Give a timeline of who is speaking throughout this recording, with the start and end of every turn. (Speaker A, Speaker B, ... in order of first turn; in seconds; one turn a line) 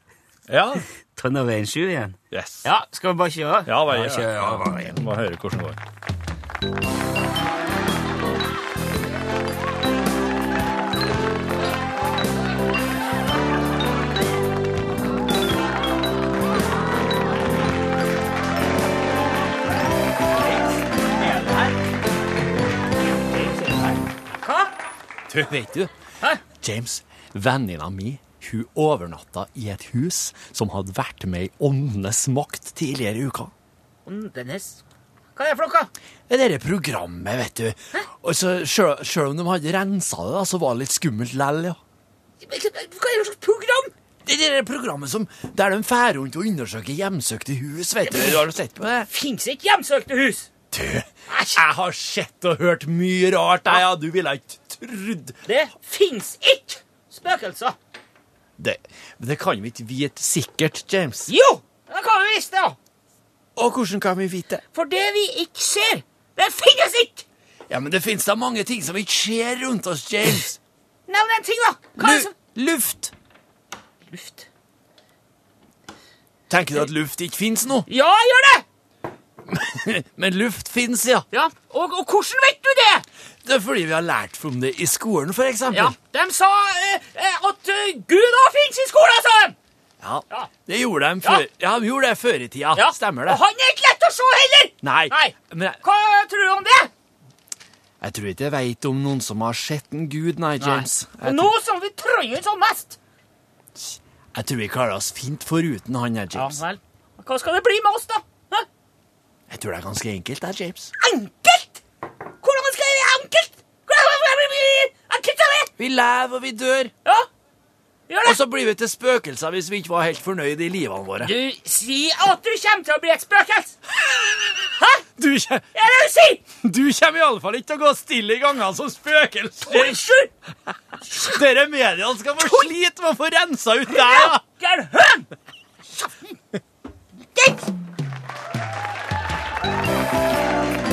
Speaker A: 0.5-0.9
Speaker B: 1.1-5.0
Speaker A: 2.3-2.7
Speaker A: 3.6-5.8
Speaker B: 20.4-21.7
Speaker B: 23.3-24.7
Speaker A: 25.3-25.9
Speaker A: 26.4-33.5
Speaker B: 34.0-34.8
Speaker B: 35.4-35.9
Speaker A: 36.3-41.8
Speaker B: 42.4-43.9
Speaker A: 44.2-49.1
Speaker B: 48.0-48.4
Speaker B: 49.1-50.5
Speaker A: 50.7-55.4
Speaker B: 51.3-51.6
Speaker B: 55.4-57.8
Speaker A: 58.6-61.3
Speaker B: 61.3-62.8
Speaker A: 63.5-64.6
Speaker B: 64.7-67.2
Speaker A: 67.7-70.6
Speaker B: 71.1-72.3
Speaker A: 72.0-73.1
Speaker B: 74.1-74.5
Speaker A: 76.5-77.9
Speaker B: 77.9-78.6
Speaker A: 79.5-81.2
Speaker B: 81.3-83.0
Speaker A: 83.4-86.0
Speaker B: 85.7-89.5
Speaker A: 90.0-93.4
Speaker B: 92.7-96.9
Speaker A: 94.8-95.8
Speaker A: 98.0-101.5
Speaker B: 100.6-103.0
Speaker A: 103.8-106.6
Speaker B: 106.3-108.7
Speaker A: 109.5-110.9
Speaker B: 111.0-111.8
Speaker B: 112.4-115.7
Speaker A: 115.8-116.9
Speaker B: 118.1-118.4
Speaker A: 118.2-121.3
Speaker B: 121.2-123.8
Speaker B: 124.6-125.0
Speaker A: 125.2-125.7
Speaker B: 125.7-126.4
Speaker A: 126.6-130.0
Speaker B: 129.7-130.3
Speaker A: 130.7-134.4
Speaker B: 132.4-132.7
Speaker B: 133.9-135.3
Speaker B: 137.3-137.6